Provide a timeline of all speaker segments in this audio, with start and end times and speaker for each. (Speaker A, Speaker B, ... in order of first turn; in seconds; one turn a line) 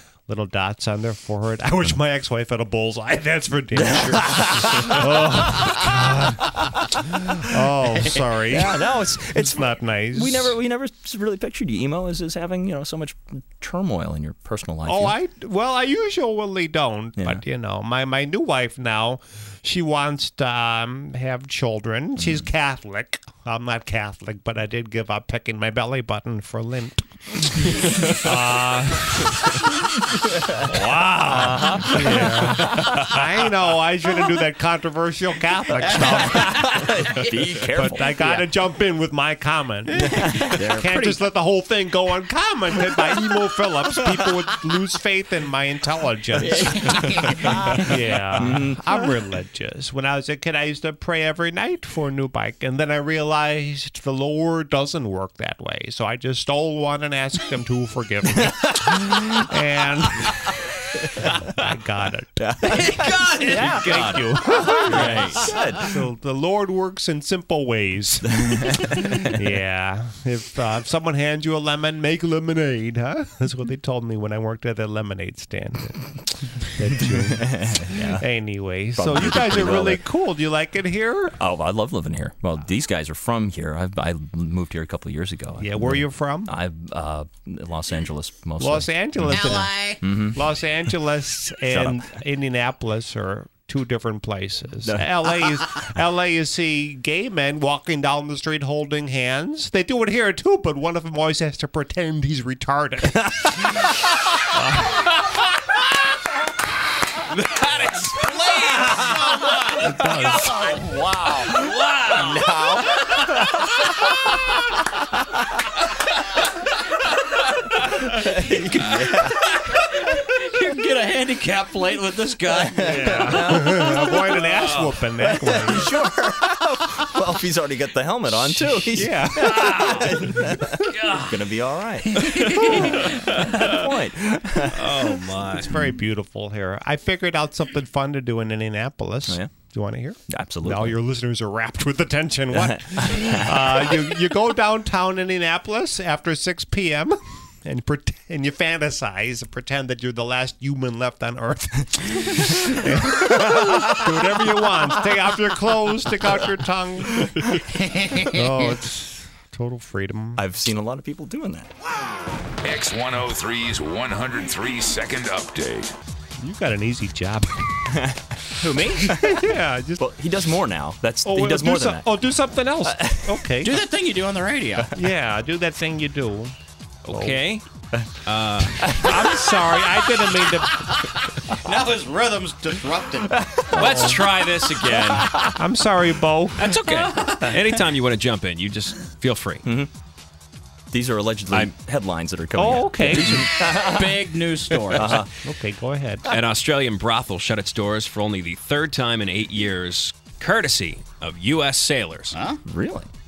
Speaker A: 0.3-10.6
Speaker B: 3.8-5.4
Speaker B: 8.4-15.2
Speaker A: 14.9-29.8
Speaker B: 17.2-17.4
Speaker A: 30.5-37.0
Speaker B: 31.3-32.6
Speaker C: 32.7-33.1
Speaker D: 36.0-37.3
Speaker B: 36.3-38.4
Speaker A: 37.7-60.5
Speaker B: 40.0-40.6
Speaker D: 40.1-41.2
Speaker D: 46.6-47.7
Speaker B: 47.3-48.9
Speaker B: 58.5-59.3
Speaker A: 61.1-62.6
Speaker B: 62.4-65.9
Speaker D: 62.6-64.2
Speaker A: 63.4-81.4
Speaker D: 64.9-65.7
Speaker C: 65.0-65.3
Speaker B: 68.3-69.4
Speaker B: 77.0-78.2
Speaker B: 79.0-80.1
Speaker B: 81.4-89.5
Speaker A: 85.6-86.5
Speaker A: 88.6-105.3
Speaker D: 89.3-90.0
Speaker B: 90.0-90.4
Speaker B: 91.7-92.1
Speaker B: 94.8-95.7
Speaker C: 107.2-110.6
Speaker A: 109.8-110.6
Speaker B: 110.0-113.4
Speaker D: 110.6-111.4
Speaker C: 111.3-113.1
Speaker B: 117.9-119.5
Speaker D: 120.1-123.6
Speaker A: 122.8-125.9
Speaker B: 123.0-124.5
Speaker C: 124.5-124.9
Speaker B: 125.3-135.3
Speaker A: 128.8-130.2
Speaker C: 129.7-130.1
Speaker C: 130.9-131.4
Speaker D: 132.1-133.0
Speaker C: 132.2-133.9
Speaker C: 134.7-135.7
Speaker A: 135.5-160.4
Speaker B: 140.3-141.0
Speaker B: 142.5-143.5
Speaker D: 157.8-158.3
Speaker B: 160.4-161.7
Speaker E: 162.6-165.9
Speaker A: 166.4-167.8
Speaker B: 167.9-169.4
Speaker A: 169.0-170.1
Speaker B: 170.0-172.1
Speaker A: 171.2-173.8
Speaker B: 172.8-173.4
Speaker D: 173.6-175.0
Speaker A: 174.9-176.5
Speaker C: 177.1-177.7
Speaker A: 177.1-177.4
Speaker C: 178.2-178.9
Speaker B: 178.7-179.7
Speaker A: 178.9-181.0
Speaker D: 180.9-183.8
Speaker B: 183.5-184.2
Speaker C: 183.7-185.5
Speaker A: 183.8-184.2
Speaker A: 185.4-186.8
Speaker C: 186.6-189.6
Speaker B: 187.3-187.6
Speaker B: 189.6-189.9
Speaker B: 190.9-194.3
Speaker A: 192.6-193.5
Speaker D: 193.6-195.3
Speaker B: 194.9-195.3
Speaker A: 195.3-196.3
Speaker C: 196.3-202.4
Speaker D: 202.3-202.6
Speaker B: 202.7-203.1